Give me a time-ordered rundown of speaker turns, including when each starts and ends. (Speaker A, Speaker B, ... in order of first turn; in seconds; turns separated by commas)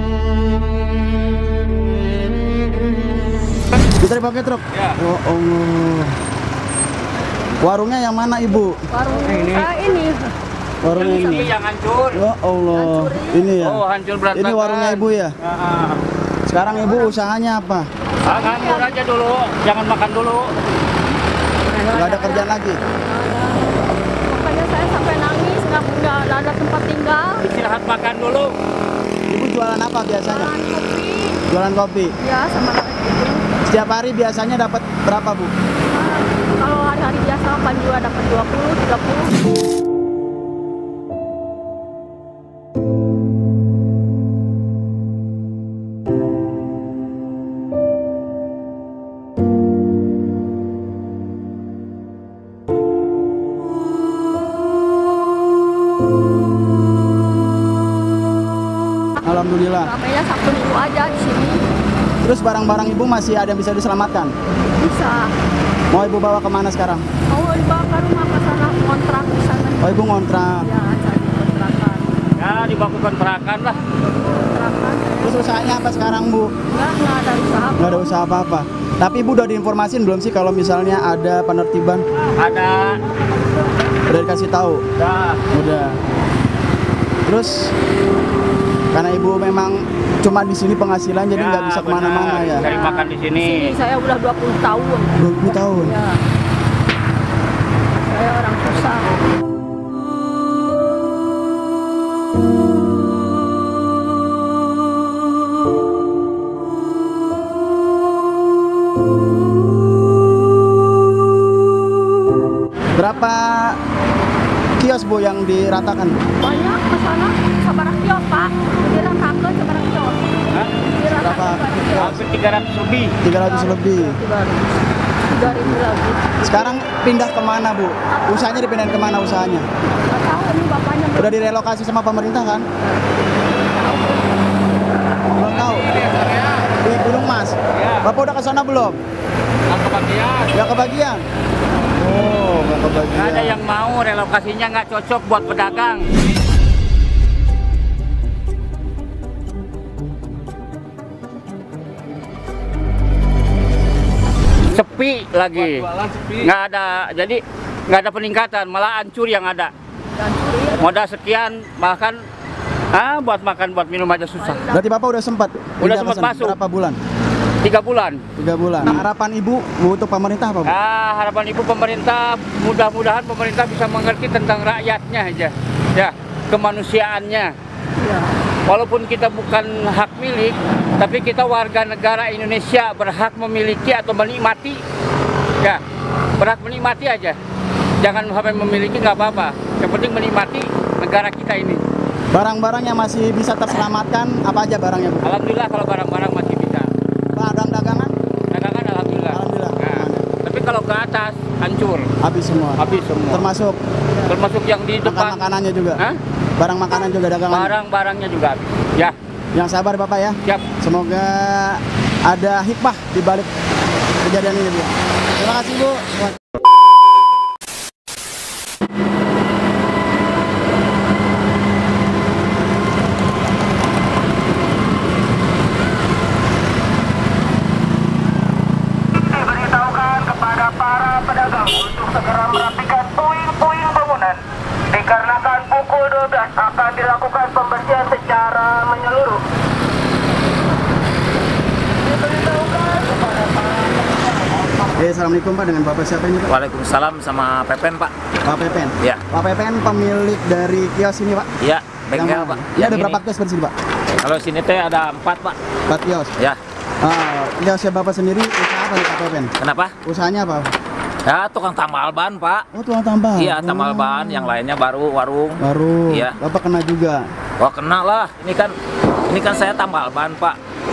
Speaker A: 4.0-6.2, Speaker A: 7.6-8.8, Speaker B: 8.9-10.3, Speaker A: 10.8-11.5, Speaker C: 10.9-12.1, Speaker B: 11.1-11.6, Speaker A: 12.1-13.8, Speaker B: 12.7-13.6, Speaker C: 13.7-15.0, Speaker A: 14.3-15.3, Speaker C: 15.6-15.9, Speaker A: 16.5-17.9, Speaker B: 18.2-19.0, Speaker C: 18.3-20.5, Speaker B: 21.7-23.6, Speaker A: 21.9-22.8, Speaker B: 24.3-27.5, Speaker C: 27.5-28.5, Speaker A: 29.3-30.5, Speaker B: 30.2-31.4, Speaker A: 31.5-32.1, Speaker B: 32.2-33.4, Speaker A: 33.6-35.5, Speaker B: 35.9-39.3, Speaker A: 59.2-59.9, Speaker B: 59.8-61.6, Speaker A: 62.2-64.3, Speaker B: 64.8-65.3, Speaker A: 65.9-67.0, Speaker B: 67.3-70.0, Speaker A: 69.8-70.7, Speaker B: 70.6-72.0, Speaker C: 72.4-73.7, Speaker B: 73.9-75.9, Speaker A: 75.2-76.5, Speaker B: 76.7-78.1, Speaker A: 77.8-82.0, Speaker C: 82.4-83.0, Speaker A: 84.1-84.8, Speaker A: 85.5-86.0, Speaker A: 87.2-87.7, Speaker A: 88.9-92.7, Speaker C: 91.4-92.5, Speaker D: 92.6-93.2, Speaker B: 92.6-96.2, Speaker C: 93.0-93.6, Speaker A: 95.2-96.0, Speaker B: 98.1-99.1, Speaker A: 113.0-113.8, Speaker A: 114.8-116.2, Speaker B: 116.4-122.2, Speaker A: 121.2-122.2, Speaker C: 122.1-122.9, Speaker D: 122.5-123.2, Speaker A: 123.2-124.2, Speaker B: 123.4-124.8, Speaker B: 125.3-126.2, Speaker A: 125.5-125.8, Speaker A: 126.4-129.7, Speaker B: 128.1-128.7, Speaker B: 130.0-131.5, Speaker A: 131.2-132.7, Speaker B: 132.8-134.3, Speaker A: 135.3-136.0, Speaker A: 136.8-139.0, Speaker D: 139.8-140.4, Speaker A: 140.5-141.2, Speaker A: 142.0-143.6, Speaker C: 143.2-146.1, Speaker C: 154.7-155.8, Speaker C: 156.4-159.7, Speaker B: 160.2-160.9, Speaker C: 160.9-162.2, Speaker C: 163.0-164.4, Speaker B: 164.4-164.8, Speaker A: 164.7-167.0, Speaker C: 165.8-166.5, Speaker C: 167.6-168.2, Speaker A: 168.4-170.7, Speaker C: 170.8-177.5, Speaker B: 178.0-178.3, Speaker C: 178.7-184.8, Speaker C: 186.4-187.4, Speaker C: 188.0-191.8, Speaker D: 189.7-189.9, Speaker A: 192.3-195.3, Speaker C: 195.4-196.9, Speaker A: 197.3-198.1, Speaker C: 198.5-202.1, Speaker A: 199.3-200.3, Speaker A: 202.2-203.8, Speaker C: 202.8-203.4, Speaker C: 204.3-205.3, Speaker A: 205.0-206.0, Speaker A: 206.6-207.8, Speaker C: 207.5-209.2, Speaker A: 209.5-213.5, Speaker A: 214.2-216.4, Speaker D: 229.2-239.4, Speaker D: 242.5-243.0, Speaker A: 245.0-246.5, Speaker E: 246.5-248.1, Speaker A: 248.4-251.5, Speaker E: 251.6-253.2, Speaker A: 252.2-253.7, Speaker E: 254.2-255.6, Speaker A: 255.9-256.3, Speaker A: 257.0-259.5, Speaker E: 259.6-259.9, Speaker A: 260.0-260.7, Speaker E: 261.3-262.6, Speaker A: 262.7-264.4, Speaker E: 263.4-266.4, Speaker A: 265.6-267.3, Speaker E: 267.6-268.7, Speaker E: 269.3-270.6